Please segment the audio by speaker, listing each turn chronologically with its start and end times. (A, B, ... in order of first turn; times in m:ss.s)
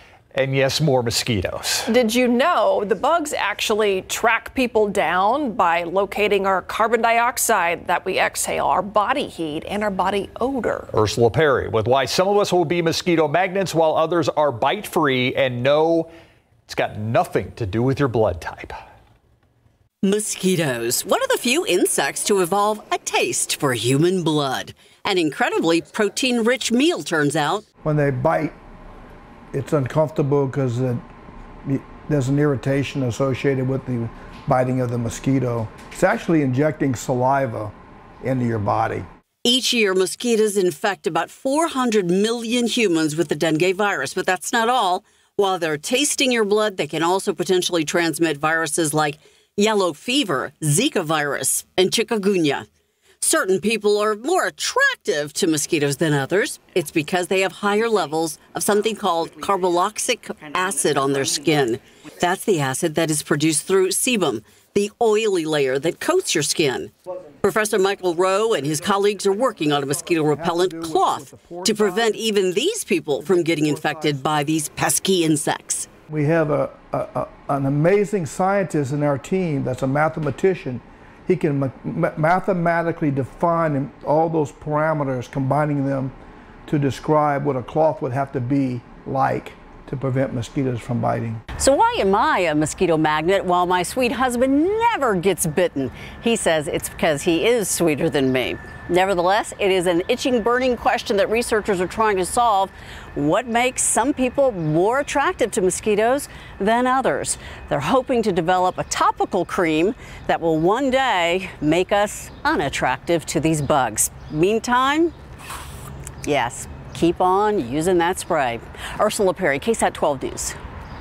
0:00.3-0:01.9 A
0:01.9-0:10.9 B
0:10.9-0:16.1 A
0:16.7-0:18.8 A
0:20.0-0:27.6 C
0:27.8-0:28.6 D
0:29.5-0:31.0 D
0:31.6-0:39.1 D
0:39.4-0:52.7 C
0:53.2-1:15.9 C
1:10.2-1:12.2 D
1:13.2-1:14.5 D
1:16.1-1:26.1 D
1:26.6-1:31.4 D
1:31.6-1:55.1 C
1:56.2-2:00.6 C